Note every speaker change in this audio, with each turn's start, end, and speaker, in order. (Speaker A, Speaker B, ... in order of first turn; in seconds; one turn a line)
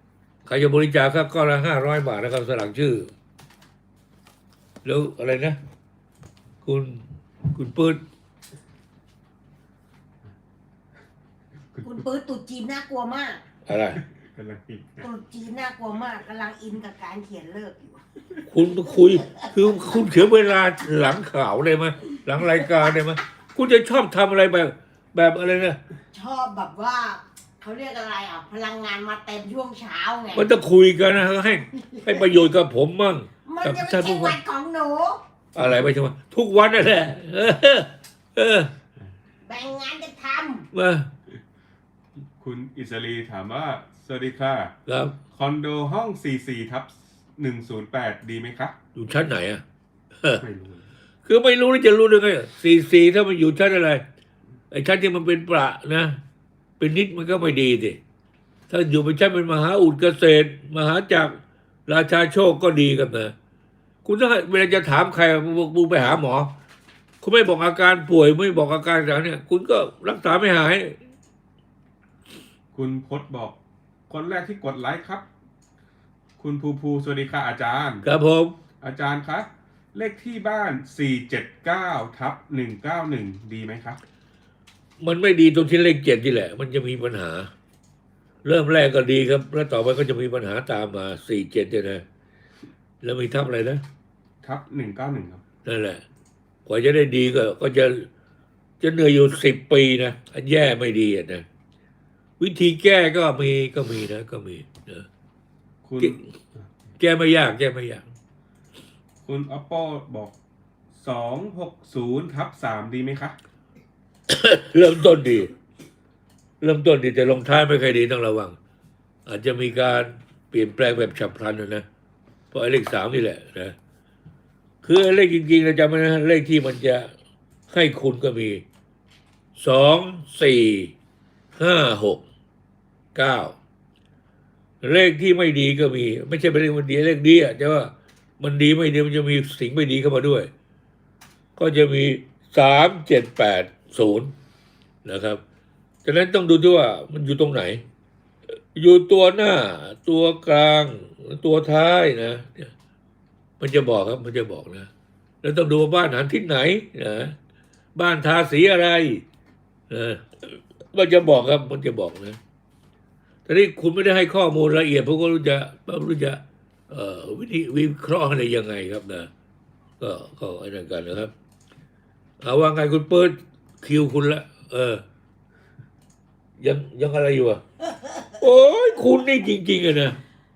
Speaker A: 0.4-3.1
Speaker A: 4.8-5.6
Speaker A: 6.6-8.0
Speaker B: 11.8-13.4
Speaker A: 13.7-14.0
Speaker C: 14.0-15.1
Speaker B: 15.0-18.0
Speaker A: 18.5-25.8
Speaker B: 19.2-19.9
Speaker B: 26.1-30.5
Speaker A: 30.3-34.4
Speaker B: 31.7-32.3
Speaker B: 33.4-35.2
Speaker A: 35.5-38.7
Speaker B: 39.5-40.7
Speaker A: 40.7-41.1
Speaker C: 42.4-44.7
Speaker A: 44.9-45.2
Speaker C: 45.3-48.8
Speaker A: 48.9-49.6
Speaker C: 50.4-50.9
Speaker A: 51.2-54.0
Speaker A: 54.7-56.2
Speaker A: 56.8-58.0
Speaker A: 58.7-63.3
Speaker A: 64.0-66.5
Speaker A: 67.2-71.0
Speaker C: 72.7-73.6
Speaker C: 74.1-75.3
Speaker C: 76.4-78.0
Speaker A: 78.0-78.5
Speaker C: 78.8-84.0
Speaker A: 85.0-87.5
Speaker A: 88.4-92.0
Speaker A: 93.0-93.8
Speaker C: 94.4-95.4
Speaker A: 95.6-96.0
Speaker A: 96.7-98.1
Speaker A: 98.8-101.4
Speaker A: 102.4-105.0
Speaker C: 105.8-106.6
Speaker A: 107.0-108.1
Speaker C: 109.2-110.3
Speaker C: 110.9-113.3
Speaker A: 114.3-115.5
Speaker A: 116.6-118.5
Speaker A: 119.2-121.8
Speaker A: 122.5-123.7
Speaker A: 124.8-127.1
Speaker A: 127.7-128.6
Speaker A: 129.6-130.9
Speaker A: 131.6-132.2
Speaker A: 133.1-133.5
Speaker A: 134.8-140.5
Speaker A: 141.6-144.3
Speaker A: 145.0-145.4
Speaker A: 146.0-147.8
Speaker A: 148.7-152.7
Speaker A: 153.6-154.9
Speaker A: 155.4-157.3
Speaker A: 157.9-159.2
Speaker A: 159.9-162.4
Speaker A: 163.4-169.3
Speaker A: 170.0-171.3
Speaker A: 172.4-175.0
Speaker A: 176.6-177.6
Speaker B: 177.9-178.3
Speaker A: 178.4-180.2